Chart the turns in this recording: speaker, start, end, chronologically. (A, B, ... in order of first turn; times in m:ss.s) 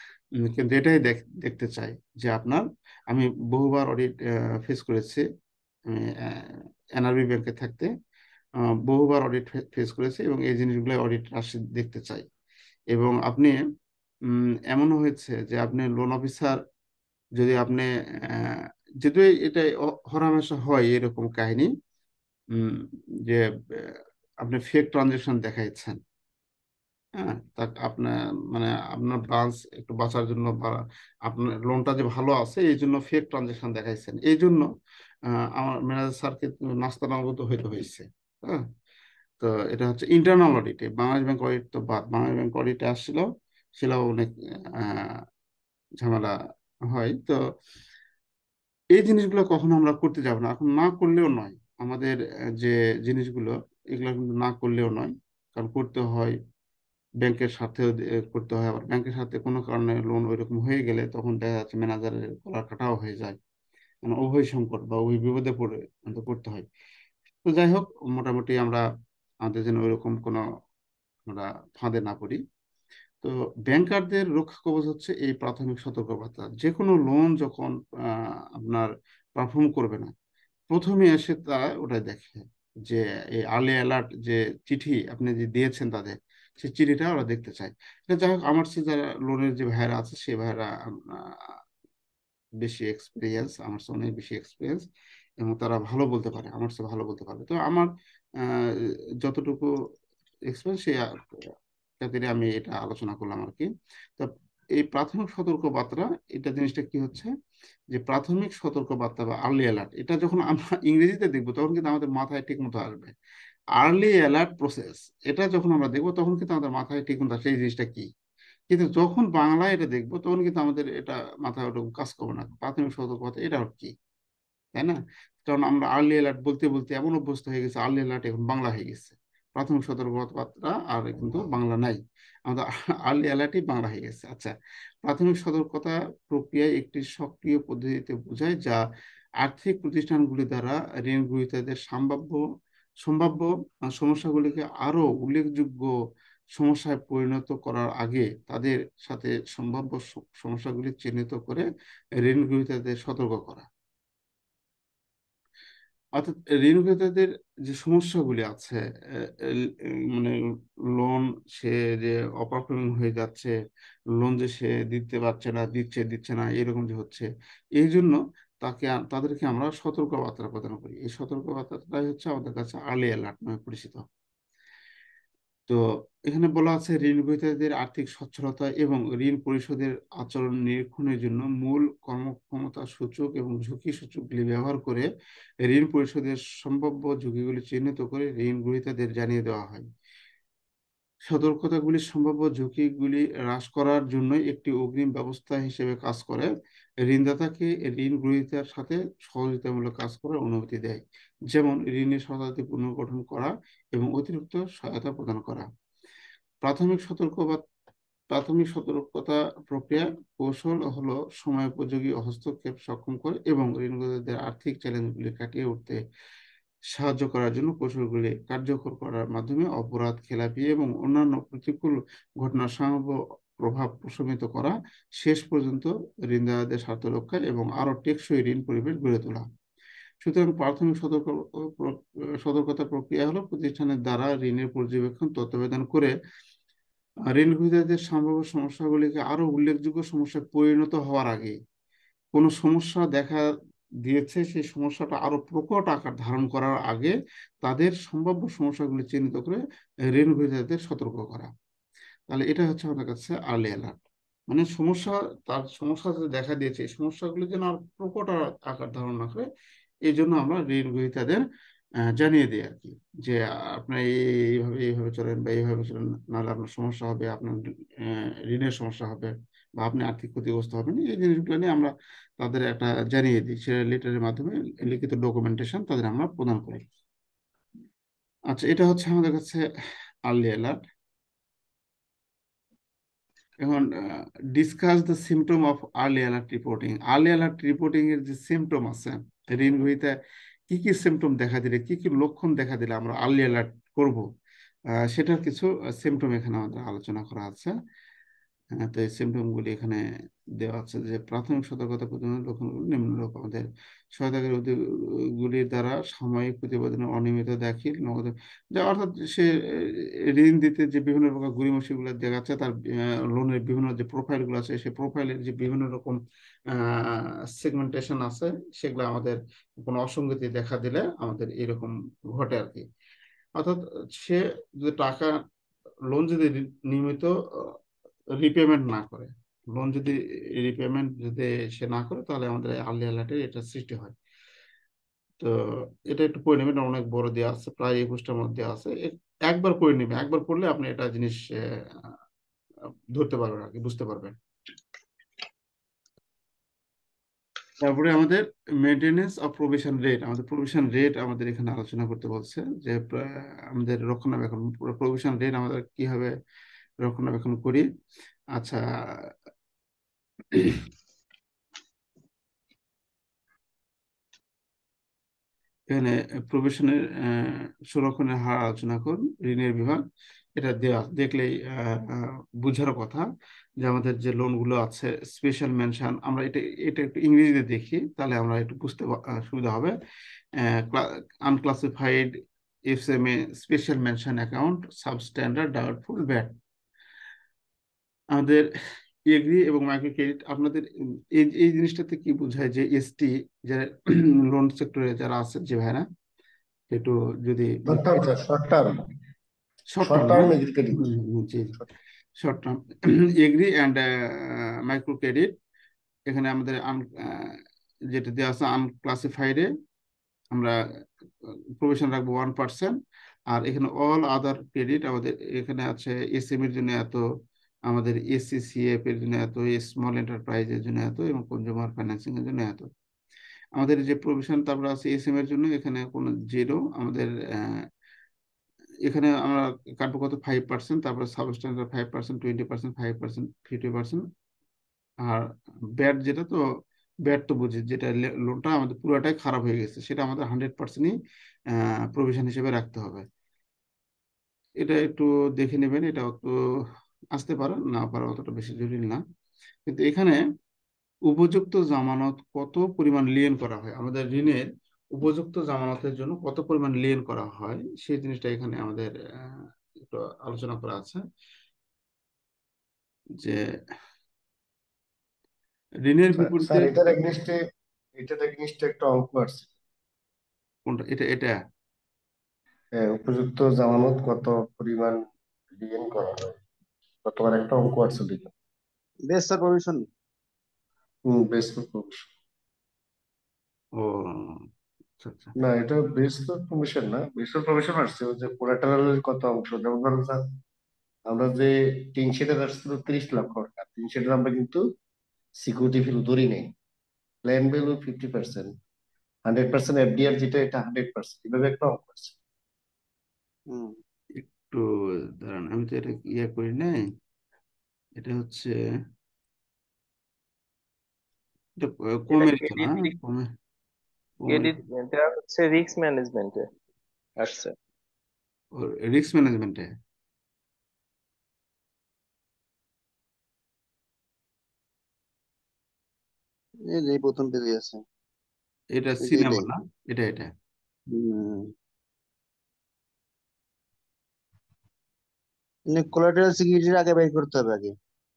0:00.4-0:04.1 A
0:04.6-0:05.2 A
0:05.9-0:07.9 A
0:08.9-0:12.3 A
0:12.9-0:13.6 A
0:14.7-0:16.6 A
0:17.4-0:21.7 A
0:22.6-0:26.0 A
0:27.2-0:34.7 A
0:35.6-0:38.6 A
0:39.4-0:43.2 A
0:43.8-0:45.2 A
0:46.0-0:46.3 A
0:46.9-0:47.4 A
0:48.9-0:56.3 A
0:57.2-1:03.4 A
1:04.0-1:06.6 A
1:07.5-1:08.8 A
1:09.4-1:10.4 A
1:11.3-1:12.4 A
1:13.2-1:17.7 A
1:18.6-1:20.1 A
1:20.7-1:30.7 A
1:32.6-1:34.8 A
1:35.4-1:37.9 A
1:39.2-1:39.7 A
1:40.5-1:41.0 A
1:42.0-1:47.3 A
1:47.9-1:53.1 A
1:53.8-1:58.1 A
1:58.7-2:03.9 A
2:04.7-2:14.5 A
2:15.0-2:18.8 A
2:19.4-2:22.4 A
2:23.0-2:25.9 A
2:26.6-2:31.6 A
2:32.2-2:33.7 A
2:36.2-2:39.3 A
2:41.0-2:43.5 A
2:44.2-2:47.3 A
2:47.8-2:54.0 A
2:55.7-3:05.1 A
3:05.7-3:09.8 A
3:11.3-3:16.5 A
3:17.1-3:21.0 A
3:21.5-3:25.7 A
3:26.6-3:27.6 A
3:28.3-3:36.0 A
3:36.9-3:49.4 A
3:50.2-3:56.1 A
3:57.4-4:01.5 A
4:02.3-4:03.4 A
4:04.0-4:09.6 A
4:10.1-4:11.5 A
4:12.3-4:14.0 A
4:14.5-4:19.5 A
4:20.1-4:21.4 A
4:22.2-4:27.5 A
4:28.1-4:36.8 A
4:38.5-4:39.6 A
4:40.3-4:40.8 A
4:44.5-4:50.1 A
4:50.7-4:54.2 A
4:55.1-4:57.7 A
4:58.8-5:00.0 A
5:00.6-5:04.7 A
5:05.4-5:09.5 A
5:10.3-5:12.7 A
5:13.3-5:16.2 A
5:16.7-5:22.8 A
5:23.6-5:25.3 A
5:26.1-5:27.7 A
5:28.4-5:34.1 A
5:36.1-5:41.4 A
5:43.1-5:44.3 A
5:47.8-5:56.3 A
5:57.0-5:57.8 A
6:05.9-6:10.0 A
6:10.6-6:12.0 A
6:12.6-6:13.2 A
6:13.8-6:19.9 A
6:20.8-6:22.3 A
6:22.9-6:26.5 A
6:28.3-6:28.7 A
6:29.3-6:30.9 A
6:31.4-6:36.0 A
6:36.9-6:38.0 A
6:37.9-6:39.0 B
6:39.9-6:40.5 A
6:40.0-6:41.0 B
6:41.0-6:41.7 A
6:42.4-6:42.8 A
6:43.4-6:45.5 A
6:46.3-6:47.6 A
6:48.1-6:49.7 A
6:51.8-6:52.9 A
6:53.5-6:57.2 A
6:57.9-7:02.9 A
7:03.8-7:07.8 A
7:09.1-7:14.2 A
7:16.0-7:16.6 A
7:17.3-7:21.1 A
7:21.7-7:23.2 A
7:24.8-7:26.5 A
7:27.3-7:29.2 A
7:29.9-7:30.4 A
7:31.3-7:41.2 A
7:46.1-7:47.1 A
7:46.4-7:47.6 B
7:48.2-7:49.7 B
7:50.9-7:51.6 A
7:53.0-7:55.2 B
7:55.8-7:56.6 B
7:57.2-7:58.5 B
7:59.3-8:00.0 C
8:01.3-8:02.3 B
8:04.0-8:04.6 A
8:05.2-8:05.5 A
8:05.6-8:10.4 B
8:11.3-8:14.8 B
8:15.6-8:16.7 B
8:17.5-8:18.7 B
8:19.5-8:22.3 B
8:23.7-8:24.0 C
8:24.4-8:24.8 A
8:25.4-8:27.0 A
8:28.2-8:28.7 A
8:31.8-8:33.5 A
8:32.3-8:33.1 D
8:34.4-8:34.8 A
8:34.5-8:36.6 D
8:37.4-8:37.7 D
8:38.8-8:39.9 A
8:46.9-8:48.0 C
8:49.0-8:50.5 A
8:49.2-8:49.6 C
8:51.1-8:51.7 C
8:55.9-8:57.9 C